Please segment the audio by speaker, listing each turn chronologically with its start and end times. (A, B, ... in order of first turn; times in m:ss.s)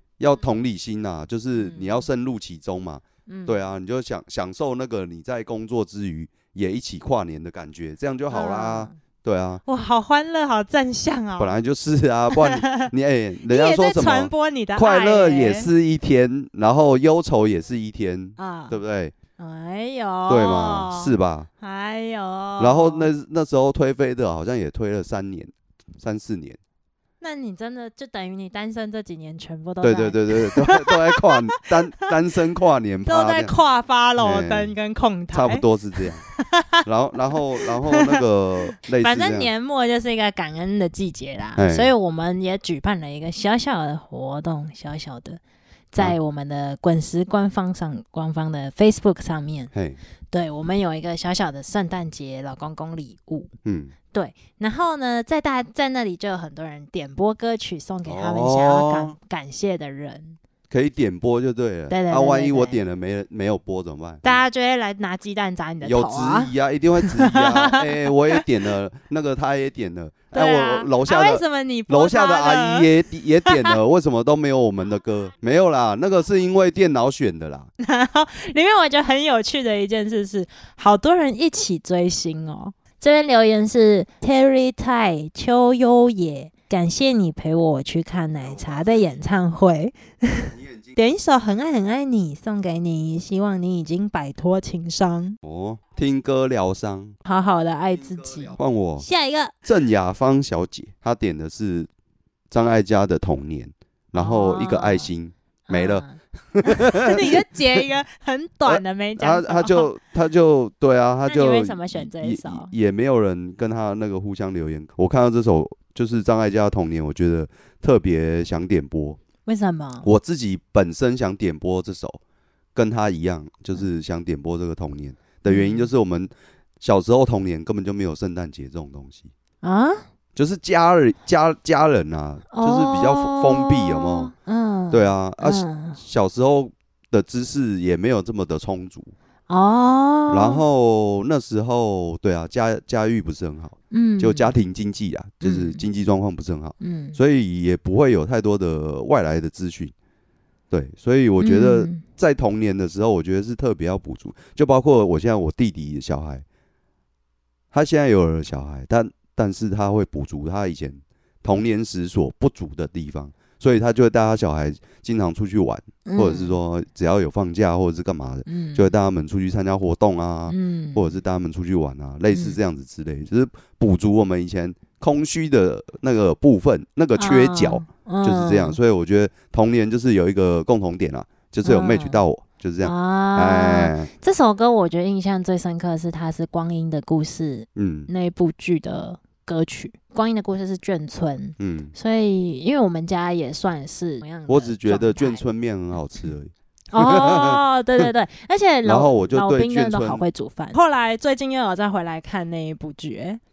0:00.2-0:09.6 A
0:01.6-0:02.0 B
0:03.3-0:03.6 B
0:08.3-0:09.0 B
0:09.6-0:11.6 B
0:11.4-0:19.1 A
0:12.3-0:12.9 B
0:13.5-0:15.7 B
0:18.4-0:18.8 B
0:19.4-0:23.1 B
0:20.3-0:21.5 A
0:22.6-0:26.6 A
0:27.2-0:31.7 B
0:29.8-0:33.5 A
0:33.0-0:35.6 B
0:34.2-0:34.7 A
0:35.3-0:36.2 A
0:36.3-0:36.8 B
0:36.8-0:39.5 A
0:37.3-0:38.2 B
0:38.9-0:45.4 B
0:41.6-0:41.9 A
0:45.9-0:49.7 B
0:49.7-0:50.0 A
0:50.3-0:53.5 B
0:53.6-0:53.9 A
0:54.1-1:00.4 B
0:58.0-0:59.1 A
1:00.7-1:04.4 A
1:01.9-1:02.8 B
1:04.2-1:08.4 B
1:05.8-1:17.7 A
1:10.3-1:12.9 B
1:13.4-1:13.7 B
1:17.8-1:35.4 B
1:28.4-1:29.1 A
1:30.5-1:30.9 A
1:35.4-1:37.2 A
1:37.2-1:39.5 B
1:38.0-1:39.0 A
1:39.6-1:41.9 A
1:42.5-1:47.8 A
1:44.1-1:45.1 B
1:45.7-1:49.9 B
1:48.6-1:59.2 A
1:51.2-1:52.7 B
1:59.4-2:00.1 B
2:00.0-2:02.2 A
2:02.7-2:09.3 A
2:05.4-2:05.9 B
2:09.6-2:10.0 B
2:10.4-2:14.3 A
2:12.5-2:16.0 B
2:14.9-2:19.1 A
2:19.5-2:20.6 B
2:20.3-2:29.9 A
2:23.9-2:24.5 B
2:25.4-2:25.8 B
2:26.8-2:27.2 B
2:30.7-2:36.4 A
2:31.4-2:32.0 B
2:37.7-3:04.1 A
2:46.0-2:46.6 B
2:48.4-2:48.9 B
2:50.5-2:51.1 B
2:52.3-2:52.6 B
2:57.2-2:58.8 B
3:01.6-3:02.2 B
3:02.8-3:15.4 B
3:07.8-3:08.1 A
3:11.6-3:11.9 A
3:14.5-3:18.1 A
3:16.9-3:23.4 B
3:18.8-3:20.2 A